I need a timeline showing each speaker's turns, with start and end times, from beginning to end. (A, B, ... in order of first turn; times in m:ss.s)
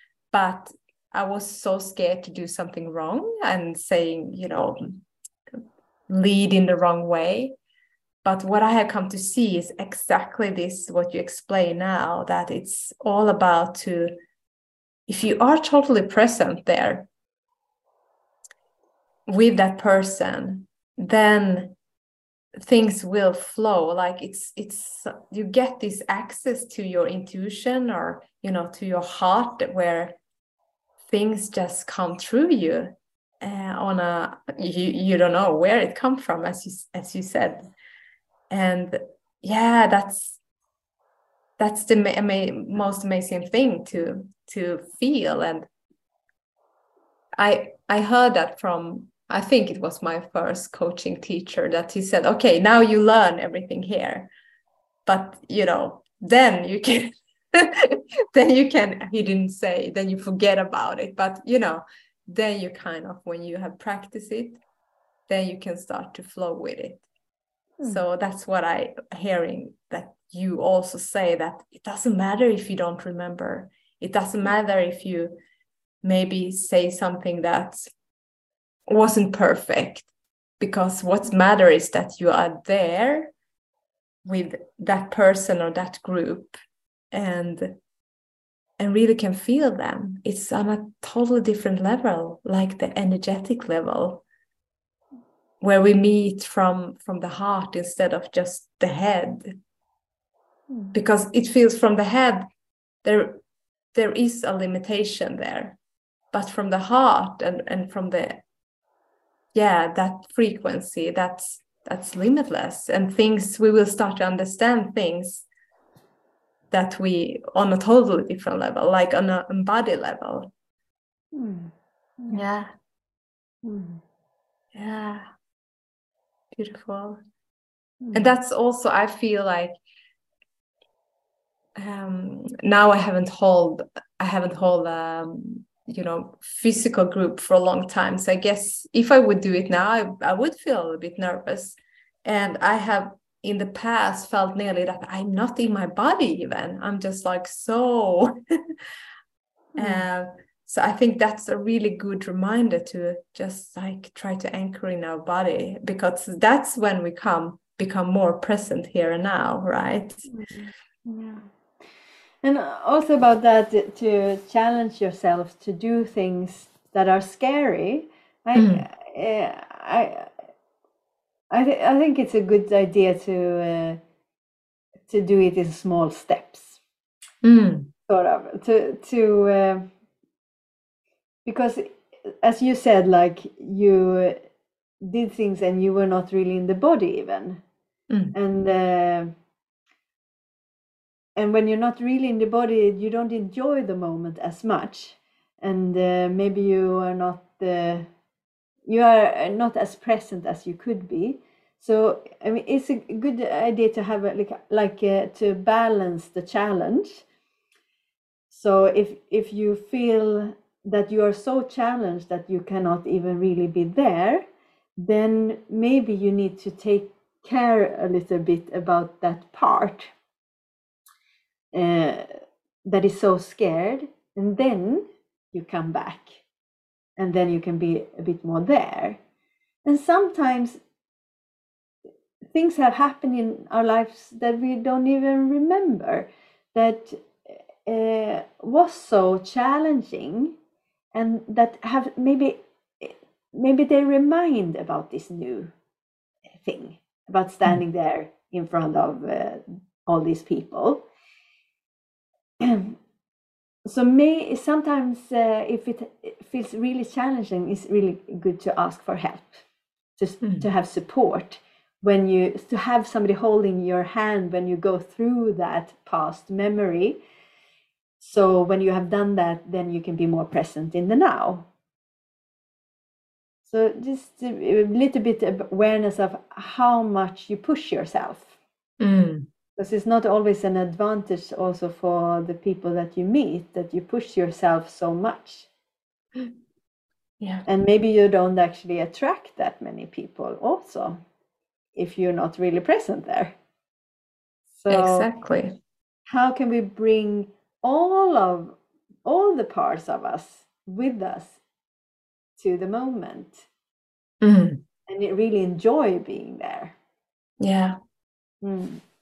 0:00.3-0:07.6 A
0:08.2-0:14.2 A
0:15.1-0:17.1 A
0:19.3-0:21.8 A
0:22.6-0:30.2 A
0:31.1-0:37.7 A
0:38.5-0:40.4 A
0:41.6-0:45.7 A
0:47.4-0:54.3 A
0:55.1-1:04.6 A
1:05.3-1:07.0 A
1:07.8-1:15.4 A
1:16.0-1:17.9 A
1:18.9-1:20.1 A
1:20.6-1:23.3 A
1:24.2-1:26.5 A
1:27.1-1:27.8 A
1:28.8-1:34.2 A
1:35.6-1:39.6 A
1:40.9-1:42.5 A
1:43.0-1:43.4 A
1:43.9-1:45.8 A
1:46.3-1:48.4 A
1:49.5-1:55.5 A
1:56.7-2:00.5 A
2:01.3-2:02.4 B
2:02.3-2:02.7 A
2:03.6-2:04.0 B
2:04.7-2:05.3 A
2:06.5-2:07.2 A
2:08.0-2:08.4 B
2:08.1-2:09.8 A
2:11.8-2:28.4 A
2:29.8-2:30.0 B
2:29.8-2:40.3 A
2:40.3-2:41.5 B
2:42.4-2:50.3 B
2:48.6-2:48.8 A
2:51.5-2:54.0 B
2:55.1-2:56.8 B
2:57.4-2:57.9 A
2:58.1-2:59.9 B
3:01.4-3:04.4 B
3:05.0-3:07.6 B
3:08.1-3:08.4 A
3:08.3-3:09.3 B
3:11.4-3:18.1 B
3:18.9-3:27.2 B
3:28.5-3:34.4 B
3:35.0-3:40.1 B
3:41.7-3:42.3 B
3:42.8-3:46.4 B
3:47.2-3:49.2 B
3:49.8-3:50.8 B
3:52.5-4:00.5 B
4:01.1-4:05.7 B
4:06.6-4:11.0 B
4:12.6-4:13.0 B
4:13.9-4:19.6 B
4:20.2-4:27.2 B
4:28.2-4:31.7 B
4:33.6-4:38.5 B
4:39.0-4:39.5 A
4:39.8-4:45.7 B
4:47.4-4:47.6 A
4:47.7-4:51.2 B
4:52.0-4:53.5 B
4:54.7-4:55.3 B
4:54.9-4:55.8 A
4:56.3-5:01.6 B
5:02.6-5:03.7 B
5:04.4-5:04.8 A
5:05.1-5:07.0 B
5:07.6-5:08.0 A
5:08.6-5:09.0 B